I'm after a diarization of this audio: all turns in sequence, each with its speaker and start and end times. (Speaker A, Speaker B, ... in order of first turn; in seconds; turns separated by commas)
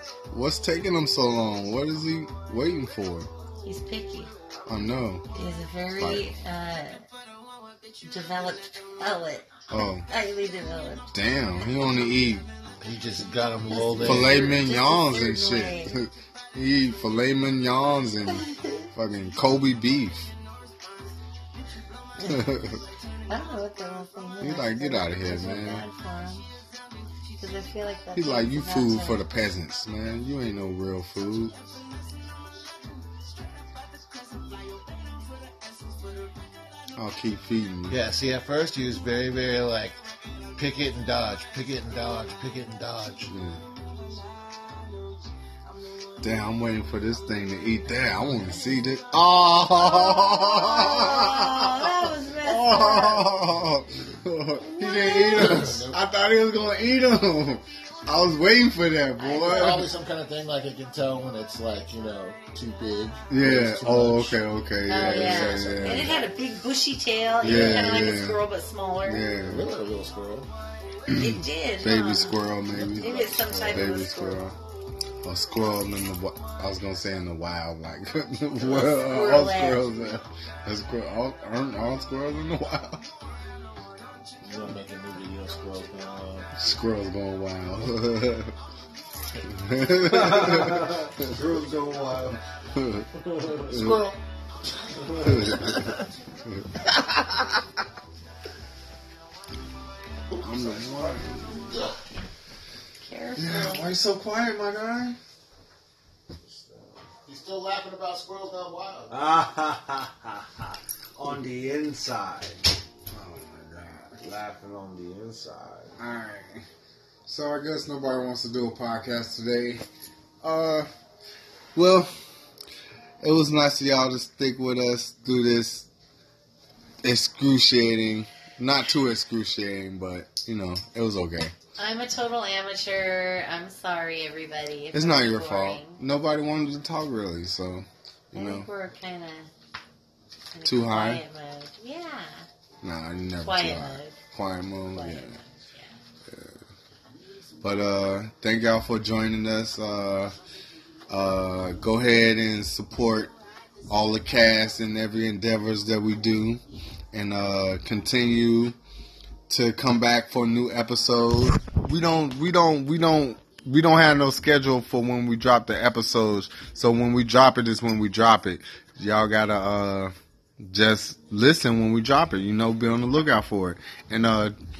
Speaker A: 0.3-3.3, Speaker B: 3.6-4.3, Speaker A: 4.7-5.3, Speaker B: 5.3-7.0, Speaker A: 5.9-6.3, Speaker B: 8.0-11.1, Speaker A: 9.7-10.1, Speaker A: 11.1-12.4, Speaker C: 12.8-14.4, Speaker B: 13.7-16.0, Speaker A: 14.0-20.3, Speaker B: 18.4-18.8, Speaker B: 22.2-22.5, Speaker A: 22.2-22.8, Speaker B: 23.3-26.4, Speaker A: 24.4-25.9, Speaker B: 27.3-29.2, Speaker A: 28.1-31.6, Speaker A: 37.0-38.0, Speaker C: 37.9-40.0, Speaker C: 40.5-43.3, Speaker A: 43.2-43.6, Speaker A: 46.2-59.9, Speaker B: 48.5-48.8, Speaker B: 49.7-53.4, Speaker B: 54.7-55.7, Speaker C: 55.1-56.0, Speaker B: 59.2-59.9, Speaker C: 59.4-64.4, Speaker A: 63.3-66.1, Speaker B: 64.8-69.3, Speaker C: 65.0-66.3, Speaker C: 67.4-68.1, Speaker A: 67.4-68.4, Speaker A: 69.0-69.7, Speaker C: 69.4-70.5, Speaker A: 71.1-74.6, Speaker B: 71.1-74.4, Speaker A: 75.2-83.1, Speaker B: 78.6-79.9, Speaker C: 84.4-86.5, Speaker A: 86.5-88.5, Speaker A: 89.5-91.3, Speaker D: 90.0-92.4, Speaker A: 92.7-93.1, Speaker D: 93.1-93.7, Speaker C: 93.7-94.2, Speaker A: 93.7-94.1, Speaker C: 94.9-95.9, Speaker D: 95.1-95.5, Speaker A: 95.2-96.7, Speaker C: 100.3-102.0, Speaker A: 100.4-101.8, Speaker B: 103.0-103.9, Speaker A: 103.4-105.2, Speaker C: 106.6-109.1, Speaker D: 109.1-112.6, Speaker A: 113.1-114.2, Speaker D: 114.2-116.0, Speaker A: 116.0-116.6, Speaker A: 117.2-119.8, Speaker A: 120.4-120.9, Speaker A: 121.7-122.1, Speaker A: 123.2-125.9, Speaker A: 127.0-131.5, Speaker B: 131.8-136.0, Speaker A: 134.9-138.7, Speaker B: 138.3-139.5, Speaker B: 140.5-142.5, Speaker A: 140.6-141.2, Speaker A: 142.8-145.4, Speaker B: 143.4-144.2, Speaker B: 144.9-146.0, Speaker A: 146.3-146.6, Speaker A: 147.6-150.3, Speaker A: 151.1-153.3, Speaker A: 153.9-158.8, Speaker A: 159.5-174.5